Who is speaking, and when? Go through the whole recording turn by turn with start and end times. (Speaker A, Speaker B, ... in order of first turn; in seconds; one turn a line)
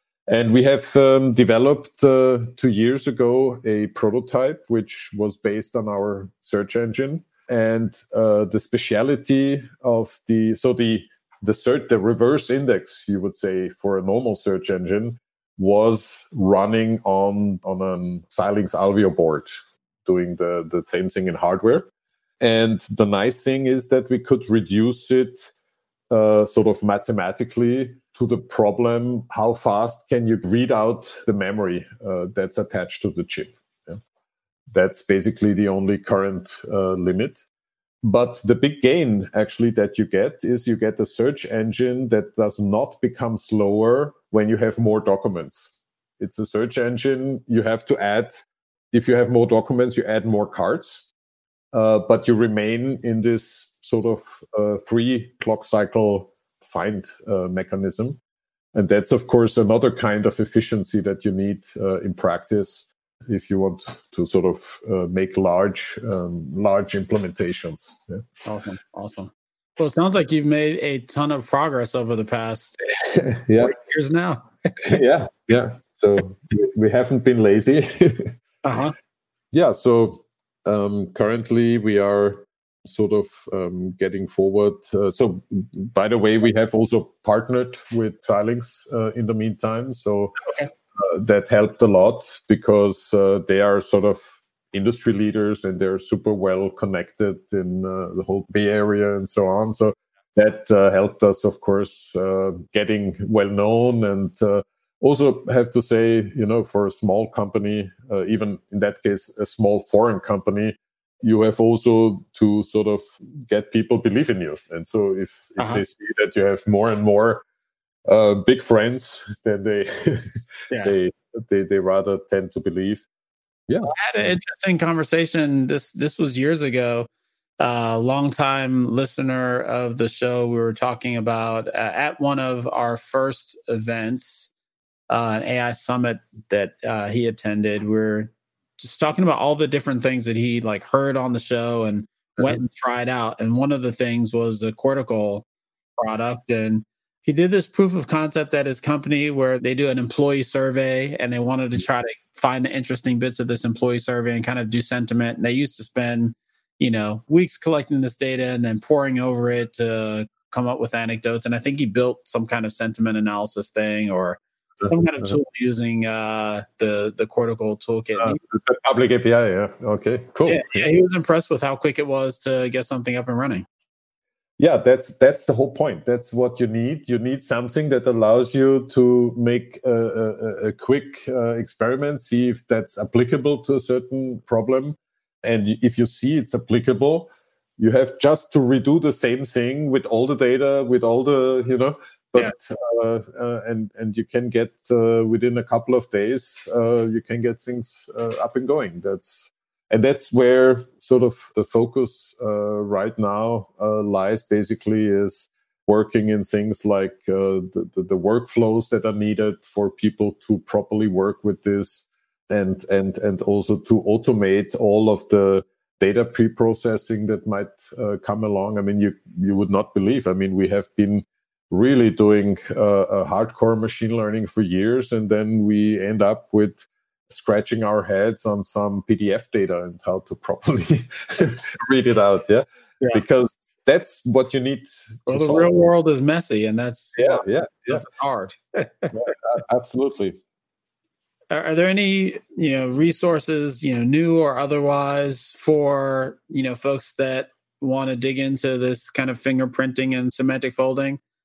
Speaker A: 0.3-19.5
Speaker A: 20.1-21.9
Speaker A: 22.4-25.5
Speaker A: 26.1-34.0
Speaker A: 34.7-37.4
Speaker A: 38.0-51.1
Speaker A: 51.7-58.2
Speaker A: 58.7-68.2
Speaker B: 68.4-72.8
Speaker A: 73.0-73.7
Speaker B: 73.6-75.0
Speaker A: 74.8-78.3
Speaker B: 78.6-78.9
Speaker A: 79.5-90.4
Speaker B: 90.4-90.7
Speaker A: 90.9-117.4
Speaker B: 115.6-115.8
Speaker A: 118.1-123.0
Speaker B: 120.7-121.0
Speaker B: 123.8-127.1
Speaker B: 127.6-134.5
Speaker B: 135.1-145.4
Speaker B: 146.0-168.4
Speaker A: 164.8-165.3
Speaker A: 168.2-170.9
Speaker B: 170.4-173.7
Speaker A: 174.6-235.8
Speaker B: 235.3-239.2
Speaker A: 237.2-238.0
Speaker A: 239.1-240.4
Speaker B: 241.5-251.2